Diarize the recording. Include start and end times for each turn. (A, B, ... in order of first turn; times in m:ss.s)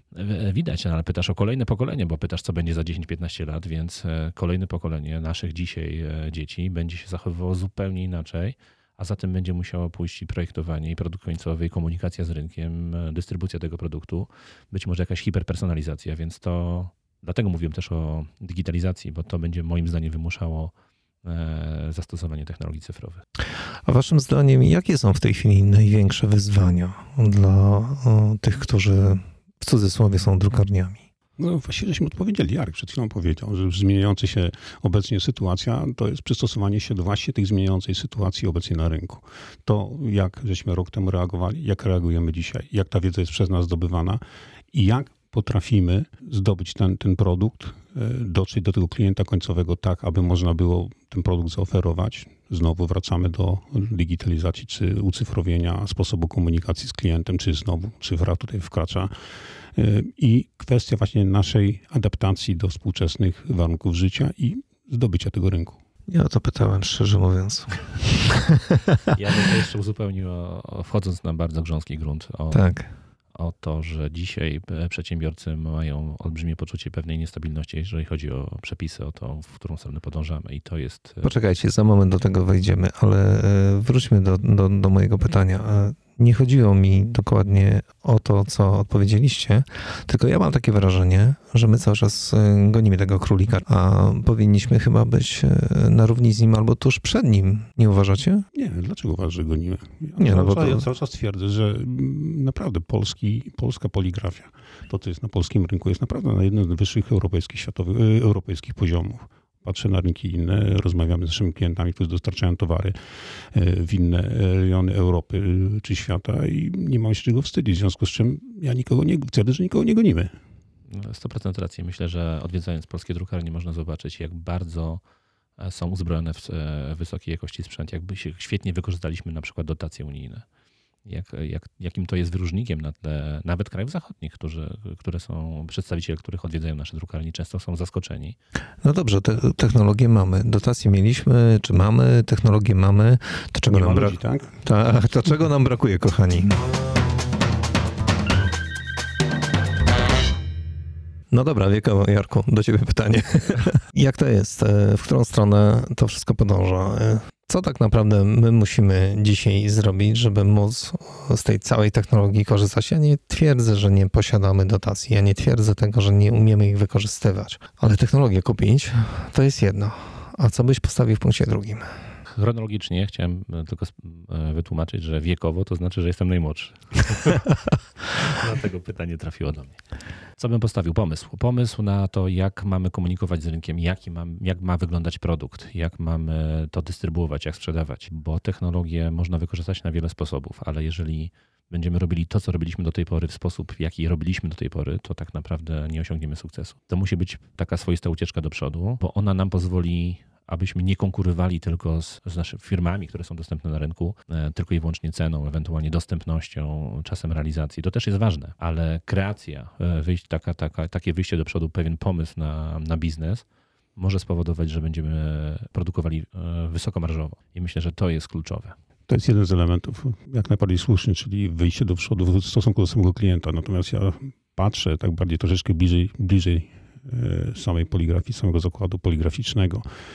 0:00.1-0:23.2 A
0:23.9-0:31.0 B
0:31.4-0:44.2 C
0:44.7-0:59.1 C
0:59.8-1:05.8 C
1:06.1-1:08.5 B
1:09.1-1:12.8 A
1:12.5-1:12.9 B
1:13.3-1:21.3 A
1:21.2-1:38.5 B
1:38.5-1:52.9 C
1:40.2-1:40.9 B
1:53.5-2:00.3 C
2:00.9-2:05.0 A
2:05.6-2:10.4 A
2:11.0-2:18.4 A
2:18.8-2:26.6 B
2:23.7-2:24.6 C
2:31.3-2:51.9 B
2:52.3-2:57.4 A
2:58.1-3:38.8 A
3:39.1-3:49.8 C